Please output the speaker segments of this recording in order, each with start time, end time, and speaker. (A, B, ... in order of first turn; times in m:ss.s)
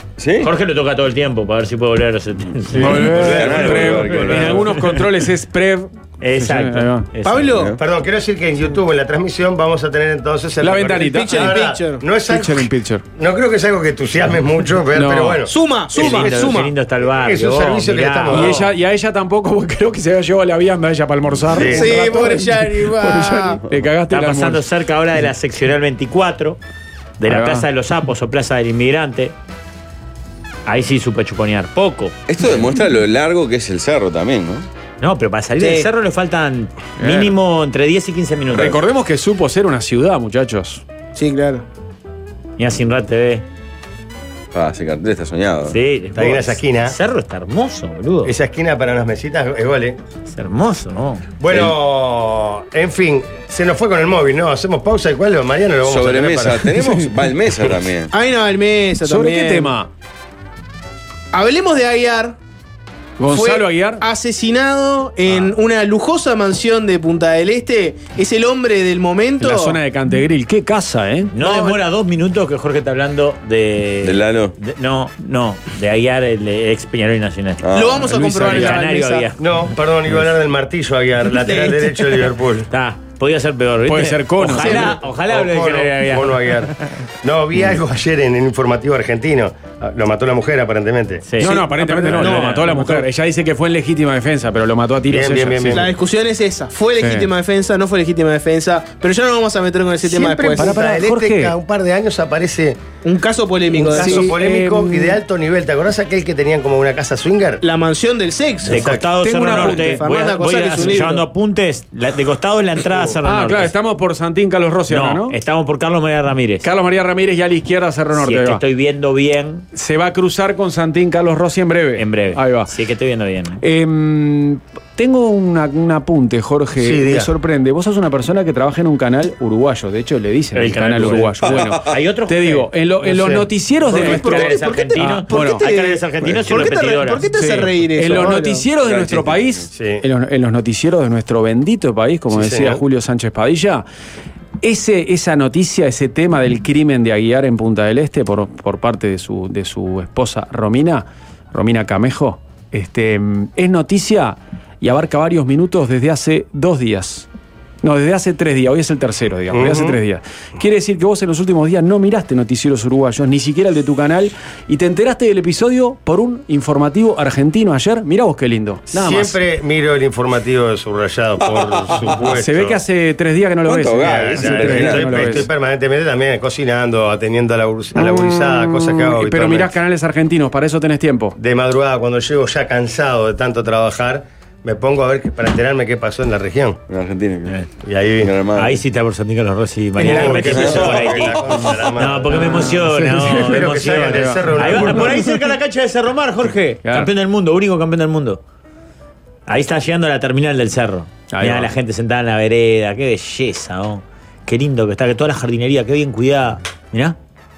0:00.2-0:00.5 A
0:00.4-0:04.4 B
0:02.7-0:07.1 C
0:02.9-0:05.0 A
0:03.1-0:04.5 D
0:06.2-0:07.6 B
0:07.2-0:07.7 E
0:07.8-0:16.2 D
0:10.6-0:11.6 C
0:11.1-0:12.0 E
0:12.2-0:13.0 C
0:14.9-0:15.4 C
0:15.5-0:16.7 E
0:15.9-0:18.7 B
0:17.0-0:18.6 D
0:18.3-0:24.6 C
0:21.4-0:22.2 D
0:21.6-0:23.6 E
0:24.1-0:26.6 B
0:27.2-0:29.3 B
0:27.3-0:27.6 C
0:30.6-0:32.2 B
0:32.3-0:34.6 A
0:35.0-0:38.8 B
0:35.6-0:35.9 E
0:37.0-0:37.3 C
0:38.5-0:40.8 C
0:41.1-0:41.6 E
0:42.6-0:43.4 B
0:44.5-0:45.8 A
0:45.7-0:48.3 B
0:46.1-0:47.0 D
0:48.2-0:50.0 D
0:50.2-0:51.3 B
0:51.4-0:56.7 D
0:55.8-0:58.1 A
0:58.1-0:59.7 E
0:59.0-0:59.9 C
1:01.3-1:02.4 E
1:03.2-1:04.0 C
1:03.3-1:09.8 E
1:09.4-1:11.7 C
1:11.3-1:17.6 B
1:14.0-1:14.5 A
1:17.6-1:18.1 A
1:17.7-1:19.3 E
1:18.1-1:18.8 C
1:18.4-1:19.6 B
1:19.4-1:22.7 D
1:22.7-1:26.6 B
1:23.8-1:25.0 C
1:24.6-1:25.0 E
1:25.0-1:31.2 D
1:31.3-1:33.0 B
1:31.4-1:35.9 C
1:31.4-1:33.0 E
1:35.1-1:35.9 D
1:35.7-1:40.8 E
1:37.0-1:37.3 C
1:40.0-1:42.8 D
1:40.6-1:41.5 C
1:43.0-1:44.3 E
1:43.7-1:47.6 D
1:43.8-1:45.2 C
1:47.6-1:51.2 E
1:48.6-1:53.7 B
1:48.7-1:49.1 D
1:49.2-1:50.0 C
1:53.2-1:55.4 C
1:54.9-1:56.7 B
1:56.6-1:58.6 C
1:58.1-1:59.6 B
1:59.7-2:02.7 C
2:02.0-2:03.6 B
2:03.6-2:15.6 C
2:06.8-2:07.3 D
2:10.5-2:12.7 B
2:11.4-2:12.0 A
2:13.0-2:13.5 D
2:13.8-2:17.3 B
2:13.9-2:18.7 E
2:16.2-2:16.7 A
2:17.4-2:23.8 C
2:18.1-2:19.7 A
2:19.7-2:20.0 D
2:22.3-2:22.8 D
2:24.6-2:37.3 C
2:37.8-2:49.4 C
2:39.5-2:40.0 D
2:48.9-2:52.8 D
2:52.2-2:55.5 C
2:53.6-2:55.5 A
2:54.0-2:59.7 D
2:58.0-3:01.4 C
3:01.4-3:06.8 D
3:06.9-3:07.6 A
3:07.8-3:08.3 D
3:08.2-3:08.8 A
3:08.5-3:18.4 B
3:10.0-3:15.2 D
3:10.3-3:11.3 A
3:12.3-3:15.4 C
3:16.8-3:17.1 C
3:19.5-3:27.2 B
3:21.3-3:21.7 C